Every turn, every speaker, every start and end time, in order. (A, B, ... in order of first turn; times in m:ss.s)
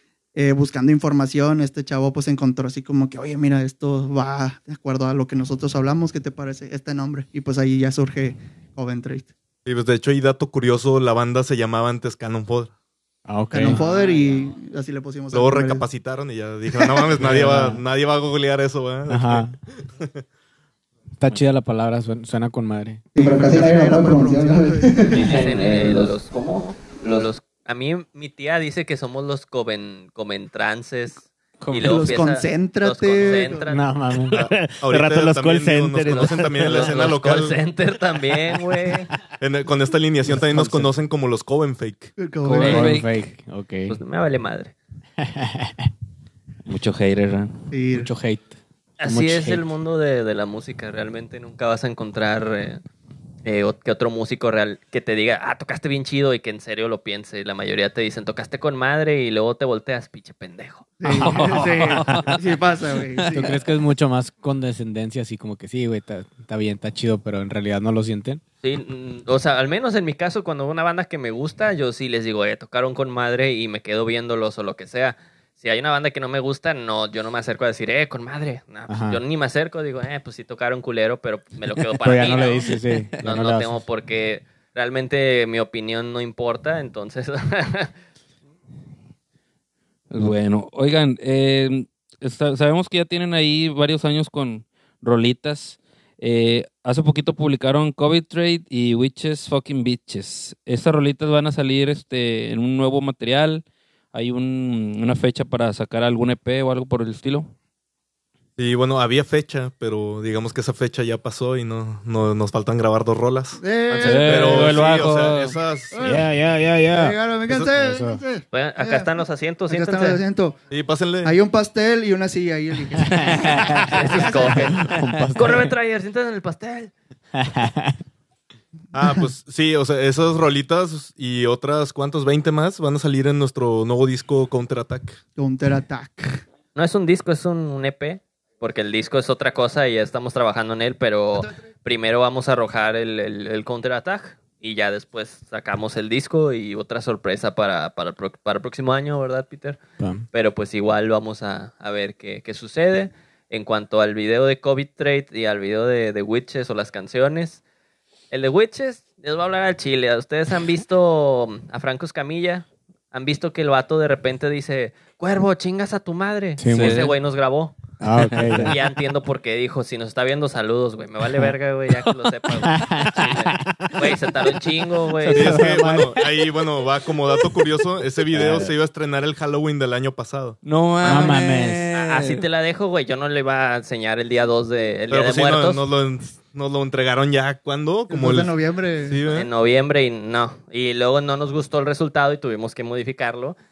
0:00.3-0:09.3 A
0:09.6-0:12.7 B
0:13.2-0:13.8 C
0:13.5-0:15.9 A
0:15.3-0:20.2 B
0:16.7-0:17.1 A
0:17.2-0:17.8 C
0:19.1-0:19.5 C
0:21.2-0:24.4 C
0:23.1-0:25.6 A
0:25.1-0:33.8 D
0:31.6-0:32.1 C
0:31.7-0:33.7 A
0:33.7-0:34.5 C
0:34.3-0:36.9 E
0:34.3-0:37.6 B
0:36.1-0:39.1 D
0:39.4-0:42.1 B
0:40.3-0:40.9 C
0:42.2-0:43.1 A
0:42.4-0:44.0 C
0:42.6-0:43.0 F
0:43.9-0:44.7 D
0:45.2-0:45.9 C
0:46.6-0:47.6 F
0:47.7-0:48.1 A
0:47.9-0:49.6 C
0:49.0-0:52.8 D
0:53.4-1:00.9 D
1:01.0-1:03.6 A
1:01.1-1:02.4 F
1:03.3-1:08.4 C
1:08.6-1:27.9 D
1:18.9-1:19.2 C
1:22.0-1:23.8 C
1:30.1-1:47.5 F
1:48.6-1:56.0 B
1:53.6-1:54.8 A
1:53.9-1:55.6 F
1:55.9-1:56.3 A
1:56.0-1:57.2 E
1:56.9-1:59.1 A
1:57.8-1:58.2 C
1:58.5-2:00.2 D
1:59.7-2:00.6 A
2:00.7-2:01.3 B
2:01.2-2:04.8 A
2:03.9-2:04.8 D
2:04.3-2:05.7 C
2:05.3-2:06.9 D
2:07.4-2:08.0 C
2:08.9-2:15.2 B
2:15.4-2:16.4 A
2:16.7-2:29.8 D
2:30.0-2:30.2 C
2:30.3-2:37.6 D
2:38.3-2:47.8 D
2:46.6-2:47.1 C
2:46.7-2:47.1 F
2:48.0-2:48.7 C
2:48.2-2:48.7 F
2:48.6-2:55.7 D
2:52.6-2:53.6 C
2:55.2-2:56.4 C
2:55.3-3:00.6 B
3:00.6-3:02.4 F
3:01.0-3:01.8 C
3:01.9-3:05.8 D
3:05.1-3:09.5 B
3:08.1-3:09.3 A
3:09.3-3:13.6 D